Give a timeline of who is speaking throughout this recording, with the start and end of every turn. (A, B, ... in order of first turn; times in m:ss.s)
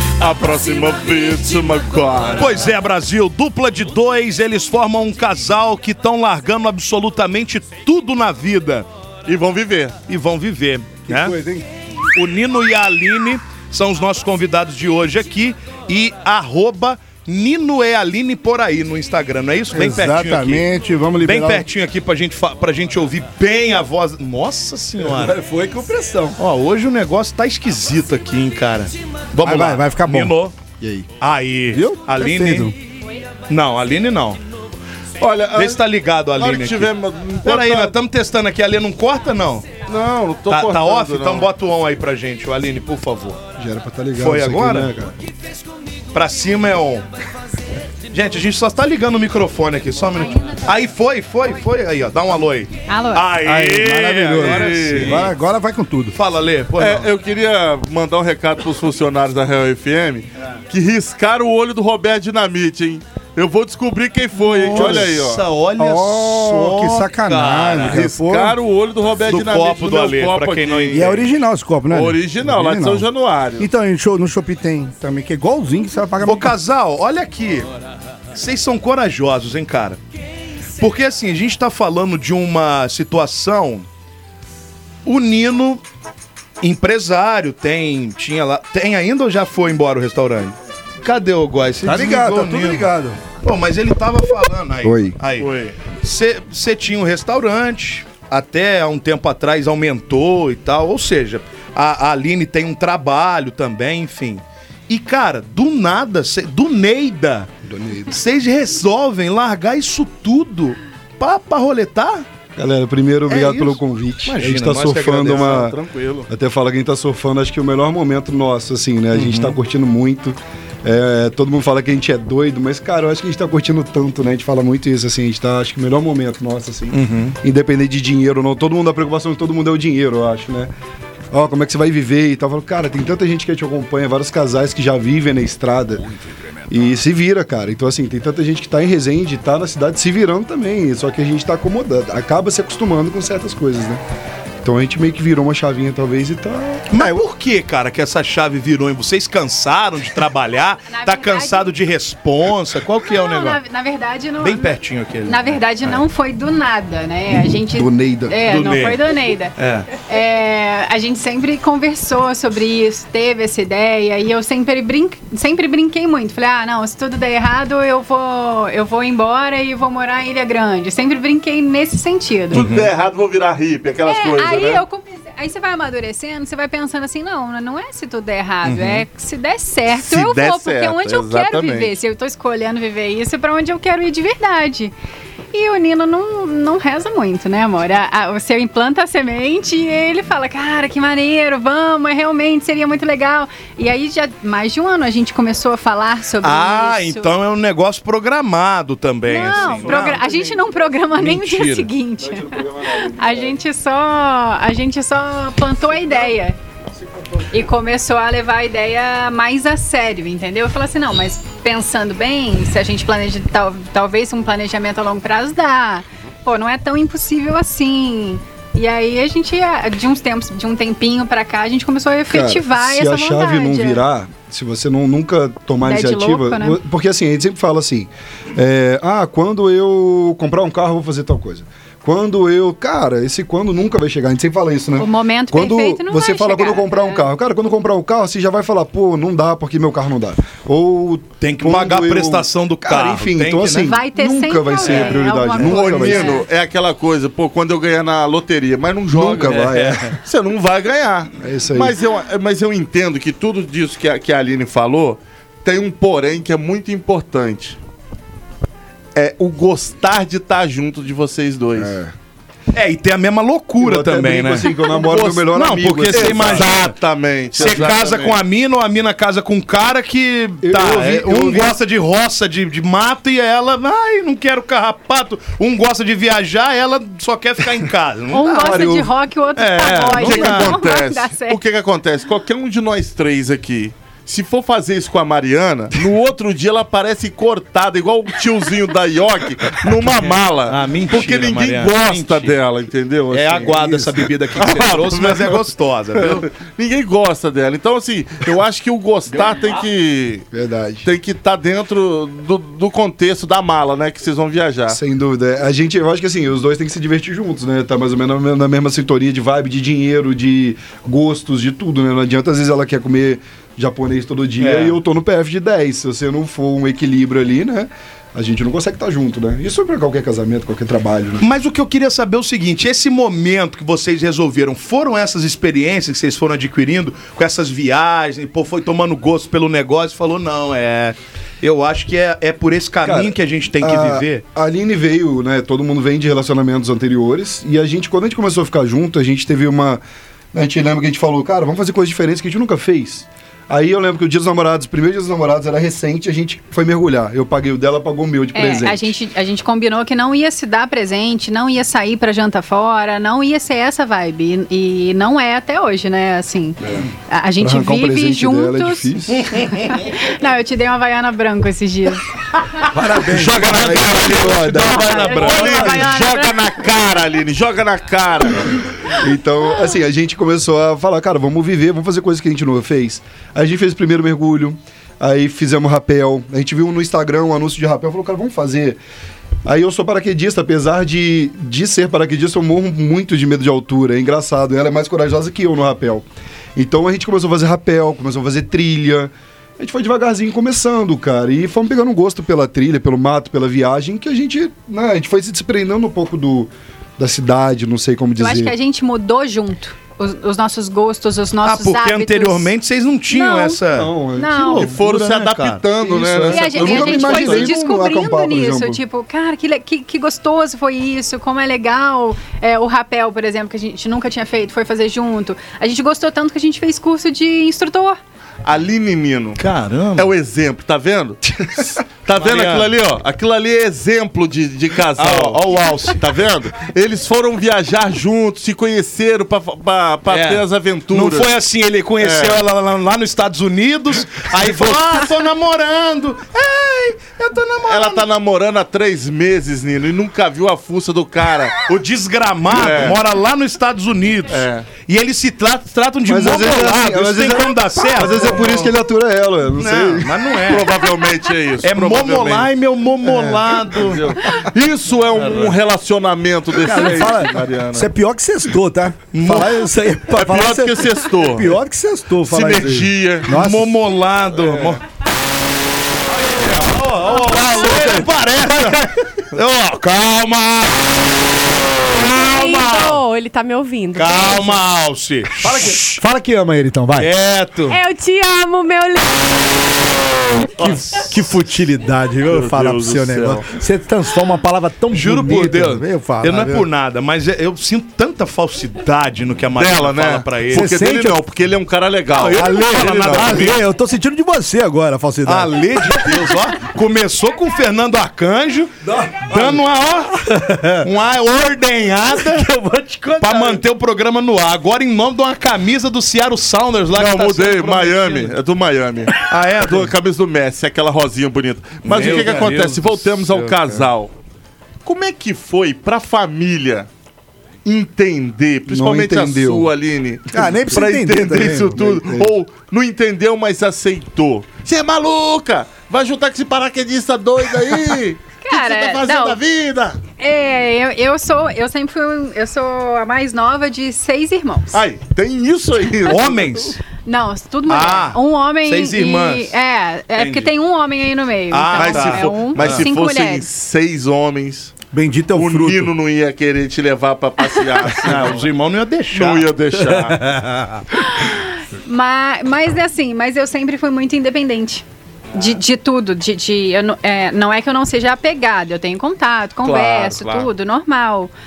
0:00.2-0:02.6 A
0:00.4-0:01.8 B
0:02.4-0:08.9 C
0:09.3-0:10.0 A
0:10.1-0:11.4 C
0:11.1-0:11.7 D
0:12.1-0:20.7 C
0:19.7-0:21.6 D
0:21.2-0:25.4 C
0:25.0-0:26.4 D
0:26.4-0:30.5 C
0:29.4-0:30.4 D
0:30.8-0:31.1 E
0:31.2-0:32.7 C
0:31.7-0:32.8 D
0:33.5-0:34.4 C
0:35.2-0:35.8 A
0:35.5-0:36.9 C
0:36.4-0:37.9 A
0:37.4-0:39.8 C
0:39.8-0:41.5 A
0:40.5-0:43.4 C
0:43.6-0:45.1 E
0:44.2-0:44.9 C
0:46.1-0:47.0 C
0:48.1-0:55.3 C
0:52.9-0:53.3 F
0:53.4-0:56.2 D
0:54.4-0:55.3 A
0:56.1-0:57.1 C
0:56.8-1:05.4 A
1:04.4-1:08.1 C
1:04.7-1:05.2 D
1:05.8-1:08.6 D
1:07.8-1:11.2 A
1:09.2-1:11.3 C
1:10.9-1:13.1 D
1:11.9-1:13.7 A
1:13.6-1:16.5 D
1:16.2-1:17.7 C
1:18.3-1:20.0 C
1:20.8-1:23.9 C
1:25.0-1:25.8 C
1:26.6-1:32.9 C
1:31.8-1:33.2 D
1:33.4-1:47.5 C
1:34.8-1:35.2 E
1:35.4-1:35.8 A
1:47.7-1:48.1 E
1:48.1-1:52.2 C
1:52.6-1:55.8 E
1:53.3-1:55.8 C
1:55.3-1:56.3 A
1:56.3-2:10.7 E
1:59.1-1:59.6 C
2:06.9-2:07.4 C
2:11.3-2:16.1 E
2:16.7-2:24.0 E
2:24.6-2:26.9 E
2:26.9-2:33.6 C
2:30.9-2:31.8 F
2:33.0-2:52.7 F
2:34.4-2:36.0 C
2:37.8-2:38.4 E
2:38.5-2:39.0 C
2:39.6-2:39.9 C
2:52.5-2:54.8 A
2:52.5-2:52.9 C
2:54.0-3:04.9 F
2:58.6-2:59.1 C
3:00.0-3:02.0 A
3:05.5-3:17.4 F
3:16.4-3:20.3 C
3:19.3-3:26.6 F
3:19.6-3:20.9 E
3:21.2-3:21.8 C
3:22.2-3:23.6 E
3:27.5-3:44.0 F
3:42.3-4:06.4 E
3:45.8-3:46.8 F
3:55.0-3:57.3 F
4:01.4-4:04.0 C
4:03.8-4:06.4 F
4:04.9-4:09.7 A
4:09.1-4:10.2 E
4:09.5-4:10.1 C
4:10.2-4:17.8 A
4:11.4-4:12.0 E
4:19.2-4:22.0 A
4:21.7-4:22.1 E
4:22.7-4:24.8 C
4:23.8-4:26.7 E
4:25.1-4:28.4 A
4:25.4-4:27.0 C
4:27.6-4:38.9 C
4:27.6-4:28.0 E
4:30.6-4:31.8 E
4:38.3-4:41.6 F
4:38.5-4:39.1 E
4:39.6-4:40.8 C
4:39.9-4:53.8 A
4:50.2-4:52.6 C
4:53.3-4:56.5 C
4:53.7-4:54.1 D
4:54.6-4:55.6 A
4:56.2-5:00.5 A
5:00.5-5:01.1 E
5:01.0-5:05.0 A
5:04.9-5:21.4 E
5:14.6-5:15.0 C
5:21.4-5:34.4 C
5:33.0-5:40.0 E
5:40.5-5:49.1 E
5:48.5-6:02.2 F
5:57.6-5:59.6 E
6:02.9-6:03.9 D
6:03.3-6:05.8 C
6:03.4-6:05.6 E
6:03.4-6:08.8 A
6:04.4-6:06.8 F
6:09.2-6:19.0 E
6:19.7-6:26.2 E
6:26.8-6:38.7 E
6:38.4-6:42.7 F
6:41.6-6:44.1 C
6:43.3-6:43.8 F
6:43.9-6:45.0 E
6:44.4-6:44.9 F
6:44.7-6:45.8 C
6:44.8-6:47.7 A
6:46.0-6:49.0 E
6:46.5-6:58.2 F
6:58.6-6:59.6 A
6:59.6-7:00.3 C
7:00.2-7:11.5 A
7:02.3-7:02.9 C
7:05.2-7:06.2 C
7:10.3-7:18.3 C
7:12.2-7:12.6 A
7:14.7-7:15.0 A
7:17.9-7:21.8 A
7:21.9-7:28.9 C
7:22.7-7:23.2 A
7:24.5-7:24.9 A
7:26.3-7:30.3 E
7:29.8-7:31.2 C
7:30.7-7:32.7 A
7:31.8-7:34.4 C
7:33.3-7:33.6 D
7:33.9-7:38.1 A
7:35.4-7:35.7 C
7:36.7-7:43.9 D
7:39.3-7:39.9 C
7:40.3-7:41.8 A
7:42.5-7:43.5 A
7:43.5-7:45.0 C
7:44.6-7:45.0 A
7:46.6-7:46.8 A
7:46.6-7:51.3 C
7:47.6-7:48.3 D
7:51.9-7:53.2 C
7:52.1-7:54.8 B
7:54.1-7:56.2 C
7:55.6-7:57.3 D
7:57.2-7:58.0 C
7:57.9-7:59.9 B
8:00.8-8:01.5 C
8:00.8-8:06.9 D
8:02.5-8:03.7 A
8:05.1-8:10.9 C
8:09.8-8:13.7 A
8:10.7-8:11.4 D
8:12.3-8:13.8 C
8:12.5-8:16.5 D
8:15.5-8:20.4 C
8:19.0-8:19.8 D
8:20.3-8:21.1 D
8:21.0-8:22.7 C
8:22.3-8:23.8 D
8:23.4-8:28.6 C
8:27.1-8:34.3 A
8:29.4-8:30.1 C
8:32.0-8:33.0 C
8:32.2-8:32.5 D
8:32.2-8:34.0 E
8:35.0-8:37.1 A
8:37.8-8:50.2 A
8:38.9-8:39.9 E
8:40.5-8:42.0 D
8:41.6-8:42.5 E
8:48.6-8:49.6 F
8:50.4-8:55.0 F
8:54.9-8:57.0 A
8:56.3-8:57.0 C
8:57.2-9:03.7 F
8:57.9-8:59.7 C
9:00.4-9:00.7 C
9:01.7-9:03.1 C
9:01.9-9:05.0 A
9:05.1-9:06.1 D
9:05.5-9:08.6 A
9:07.7-9:08.1 F
9:08.1-9:09.7 C
9:09.3-9:10.5 A
9:10.0-9:10.4 D
9:11.2-9:21.5 F
9:19.8-9:20.7 A